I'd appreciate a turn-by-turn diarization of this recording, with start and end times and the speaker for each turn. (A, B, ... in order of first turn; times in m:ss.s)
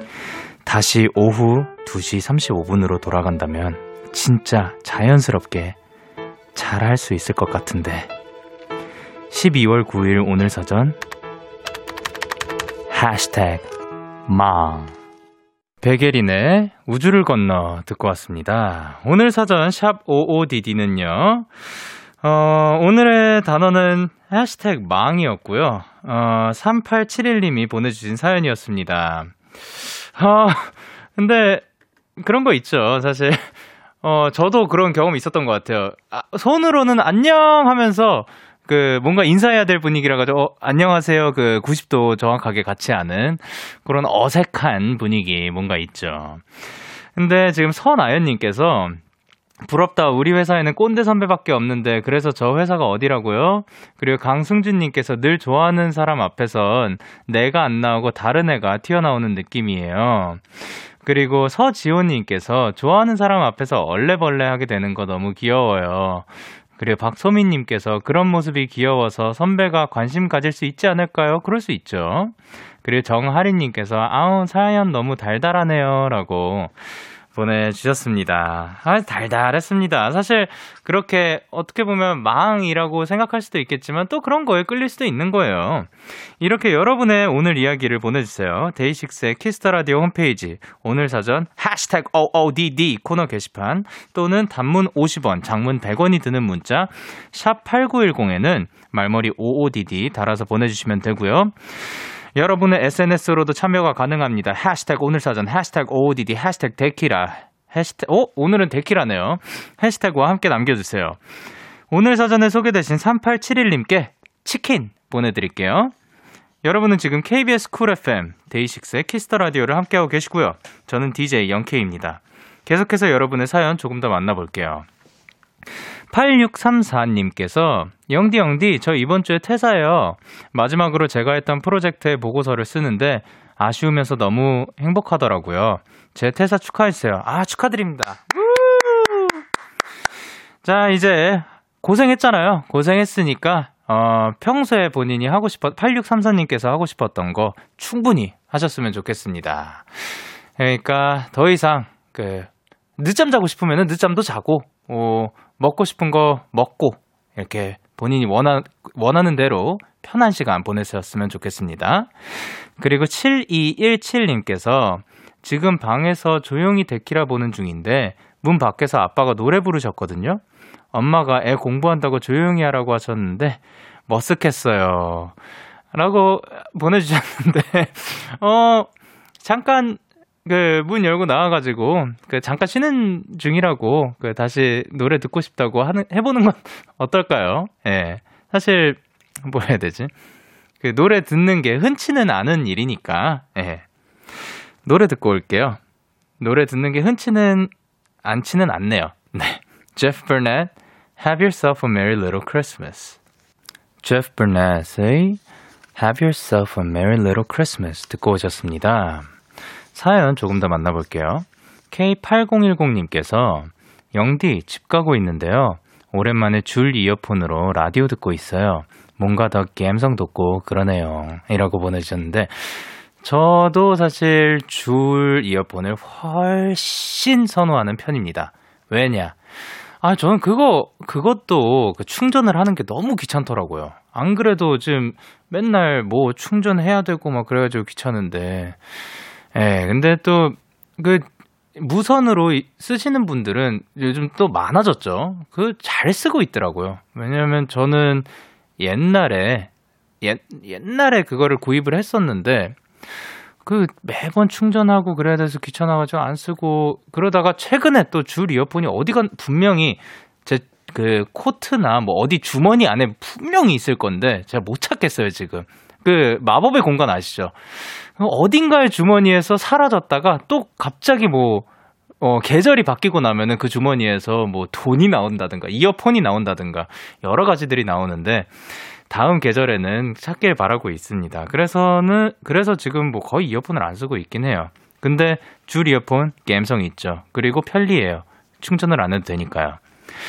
0:00.6-0:05.8 A
0:06.5-0:08.1 A
0:09.3-0:11.0 A
0:12.9-0:13.7 A
0:14.3-0:14.9 A
0:15.8-0:21.5 A
0:22.2-0:31.6 A
0:32.2-0:33.5 A
0:34.0-0:46.4 A
0:47.2-0:49.0 A
0:49.6-1:16.8 A
1:17.3-1:51.2 A
1:51.9-1:55.9 A
1:56.6-2:04.8 A
2:06.1-2:19.4 A
2:20.6-2:42.1 A
2:42.8-2:50.4 A
2:50.9-2:55.3 A
2:55.9-2:58.9 A
2:59.4-3:10.1 A
3:10.8-3:13.8 A
3:14.8-3:15.8 A
3:16.4-3:17.7 A
3:18.2-3:23.2 A
3:24.0-3:25.4 A
3:26.0-3:29.3 A
3:29.9-3:49.4 A
3:50.0-3:58.8 A
3:59.5-4:09.7 A
4:10.2-4:12.8 A
4:13.6-4:31.6 A
4:32.2-4:38.5 A
4:39.1-4:49.8 A